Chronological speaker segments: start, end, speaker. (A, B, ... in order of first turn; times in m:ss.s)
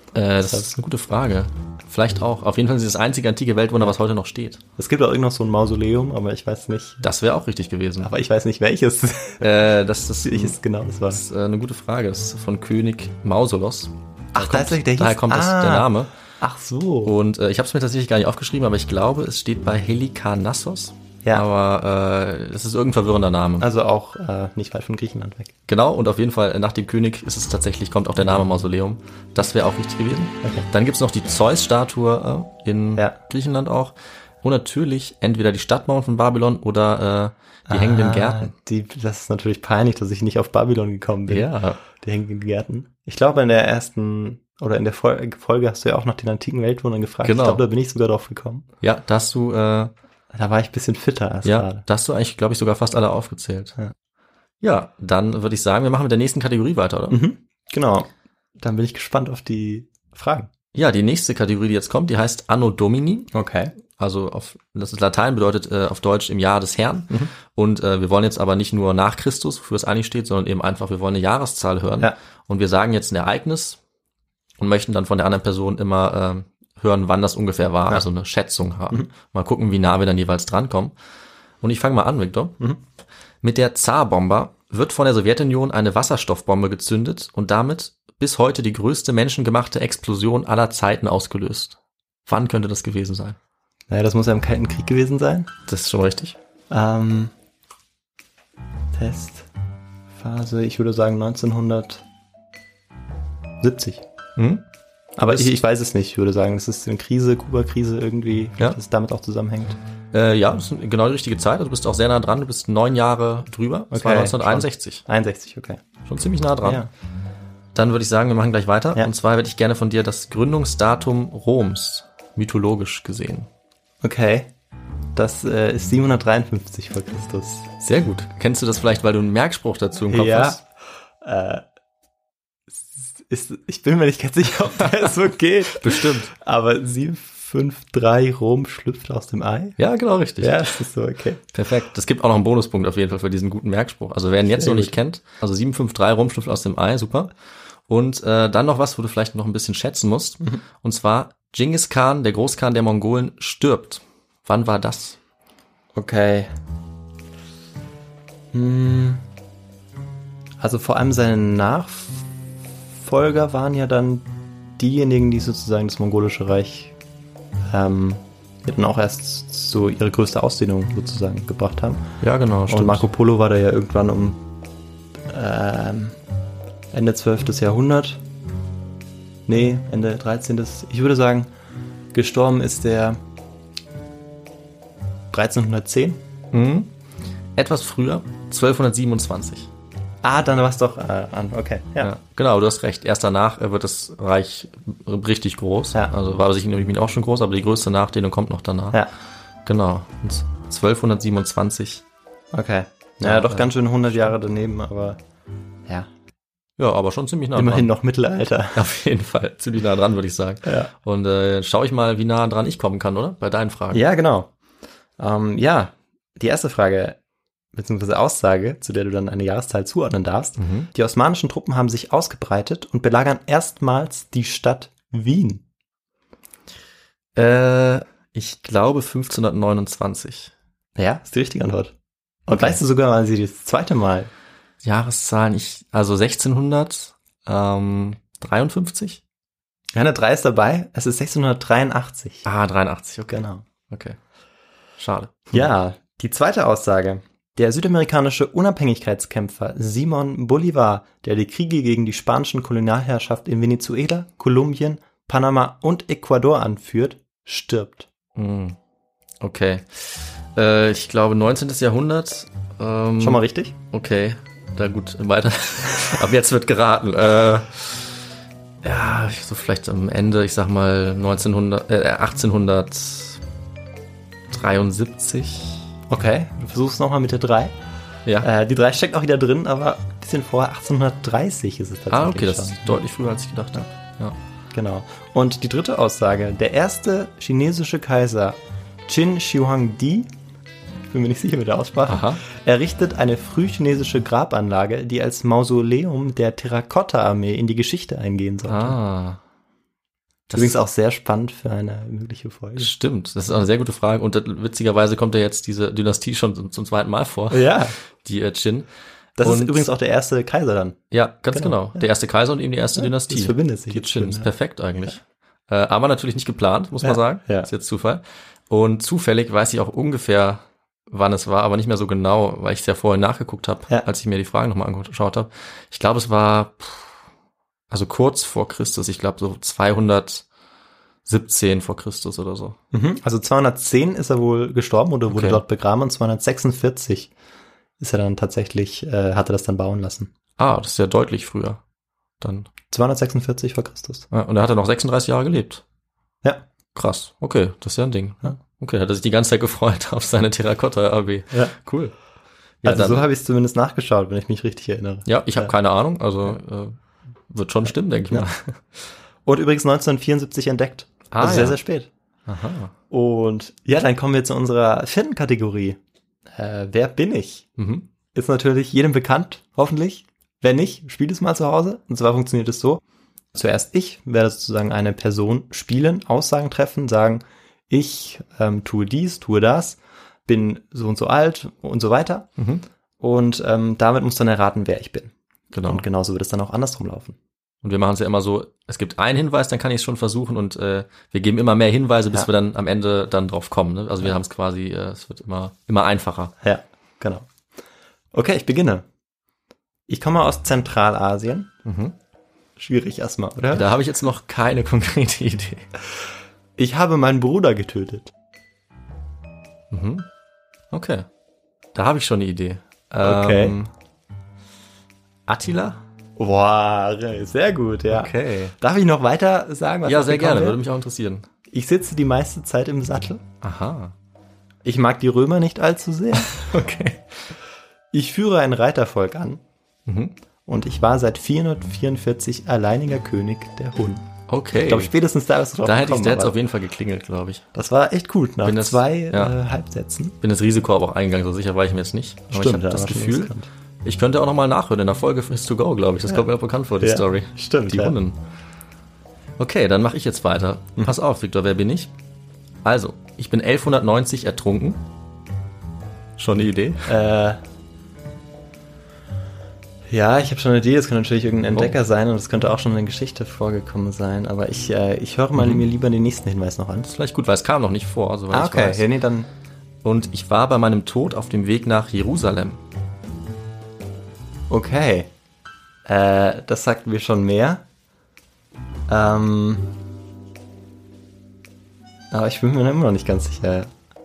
0:00.1-0:04.6 A
0:04.8-0:07.0 B
0:07.0-0:08.1 A
0:08.0-0:09.4 B
0:09.4-0:10.6 A
0:10.2-0:11.2 B
0:11.1-0:16.1 A
0:14.3-0:17.1 B
0:17.0-0:23.7 A
0:23.6-0:25.5 B
0:25.7-0:38.5 A
0:37.7-0:48.6 B
0:41.3-0:41.8 A
0:47.2-0:47.6 A
0:48.8-0:49.9 A
0:50.3-0:51.8 B
0:51.4-0:53.7 A
0:54.6-0:57.2 A
0:57.1-0:58.1 B
0:58.6-1:00.5 B
1:00.7-1:03.3 A
1:03.3-1:03.7 B
1:03.9-1:13.8 A
1:14.6-1:20.9 A
1:21.6-1:22.6 A
1:23.4-1:33.4 A
1:33.9-1:35.5 B
1:35.7-1:36.4 A
1:36.7-1:37.3 B
1:38.9-1:39.5 B
1:40.2-1:42.0 B
1:43.6-1:44.0 B
1:44.4-1:44.6 A
1:45.2-1:45.6 A
1:45.2-1:49.8 B
1:50.1-1:55.0 A
1:53.9-1:55.8 B
1:56.0-1:56.8 A
1:56.6-1:56.9 B
1:57.7-2:03.5 A
2:04.0-2:04.5 B
2:05.1-2:07.7 B
2:07.8-2:10.6 A
2:10.1-2:10.6 B
2:11.2-2:11.6 B
2:12.8-2:19.8 B
2:15.7-2:16.3 A
2:19.8-2:20.8 A
2:20.4-2:21.4 B
2:21.5-2:27.3 A
2:24.5-2:25.0 B
2:27.9-2:35.2 A
2:35.9-2:36.5 B
2:38.5-2:39.2 B
2:40.6-2:42.2 B
2:43.0-2:46.9 B
2:47.7-2:52.0 B
2:52.2-2:53.0 A
2:52.7-2:54.4 B
2:55.3-2:56.2 B
2:56.9-2:58.2 B
2:59.5-3:01.5 B
3:02.1-3:03.2 B
3:05.3-3:06.2 B
3:06.5-3:06.9 A
3:07.5-3:09.7 A
3:10.2-3:12.1 B
3:12.0-3:19.0 A
3:19.6-3:22.0 A
3:22.5-3:25.2 B
3:23.2-3:23.7 A
3:26.8-3:27.9 A
3:27.5-3:28.8 B
3:28.7-3:34.0 A
3:30.6-3:30.9 B
3:33.9-3:34.5 B
3:35.2-3:37.2 B
3:37.7-3:45.6 B
3:40.6-3:40.9 A
3:47.3-3:50.5 A
3:51.0-3:51.9 B
3:52.5-3:52.8 A
3:52.5-3:54.3 B
3:54.8-3:59.2 A
3:59.9-4:02.4 B
4:02.4-4:04.2 A
4:03.3-4:03.6 B
4:05.0-4:05.7 A
4:05.5-4:18.1 B
4:18.3-4:18.8 A
4:19.4-4:28.2 A
4:23.2-4:23.7 B
4:28.8-4:33.4 A
4:34.5-4:35.9 A
4:36.1-4:37.7 B
4:38.4-4:43.0 B
4:42.1-4:44.4 A
4:44.7-4:50.3 B
4:51.1-4:59.0 B
4:52.1-4:52.4 A
4:58.7-4:59.4 A
5:00.5-5:00.8 A
5:00.5-5:02.9 B
5:02.8-5:08.9 A
5:07.5-5:08.0 B
5:09.4-5:11.0 B
5:09.4-5:09.9 A
5:11.1-5:27.1 A
5:11.5-5:12.0 B
5:12.9-5:14.5 B
5:17.0-5:17.7 B
5:27.9-5:30.4 A
5:31.2-5:32.8 A
5:32.9-5:37.3 B
5:35.3-5:35.6 A
5:38.0-5:40.3 B
5:40.6-5:41.8 A
5:42.4-5:42.7 A
5:42.9-5:44.3 B
5:44.3-5:45.8 A
5:46.9-5:52.1 A
5:52.8-5:53.2 A
5:52.8-5:55.7 B
5:55.2-5:57.0 A
5:57.5-5:58.8 A
5:59.4-6:02.1 B
6:01.3-6:01.8 A
6:02.5-6:02.9 A
6:03.1-6:06.0 B
6:06.5-6:07.7 B
6:07.8-6:08.1 A
6:08.3-6:13.0 B
6:13.5-6:22.5 B
6:22.6-6:22.8 A
6:23.2-6:25.3 B
6:25.7-6:26.0 A
6:25.8-6:27.4 B
6:27.8-6:36.5 A
6:36.6-6:37.5 B
6:38.3-6:39.0 B
6:40.1-6:41.7 B
6:41.8-6:42.2 A
6:42.8-6:43.9 B
6:43.7-6:45.9 A
6:46.8-6:48.3 B
6:49.9-6:50.3 A
6:50.9-6:51.3 A
6:51.9-6:53.9 A
6:53.2-6:53.8 B
6:55.5-6:56.0 A
6:56.4-7:00.8 B
6:58.1-6:58.7 A
7:00.0-7:01.5 A
7:01.7-7:03.4 B
7:03.6-7:04.1 A
7:04.8-7:06.5 B
7:06.5-7:07.2 A
7:08.1-7:09.6 B
7:10.0-7:10.3 A
7:10.7-7:14.2 B
7:14.5-7:15.1 A
7:14.8-7:16.5 B
7:15.8-7:17.6 A
7:17.7-7:20.3 B
7:18.6-7:19.5 A
7:20.4-7:28.4 A
7:22.5-7:23.7 B
7:27.0-7:28.2 B
7:29.6-7:32.1 A
7:32.8-7:35.0 A
7:36.4-7:37.1 A
7:37.0-7:37.6 B
7:40.1-7:47.1 B
7:45.6-7:45.8 A
7:47.1-7:49.0 A
7:48.5-7:49.5 B
7:50.0-7:52.8 A
7:54.7-7:55.3 B
7:56.0-7:57.8 B
7:59.1-7:59.9 B
8:02.3-8:03.9 B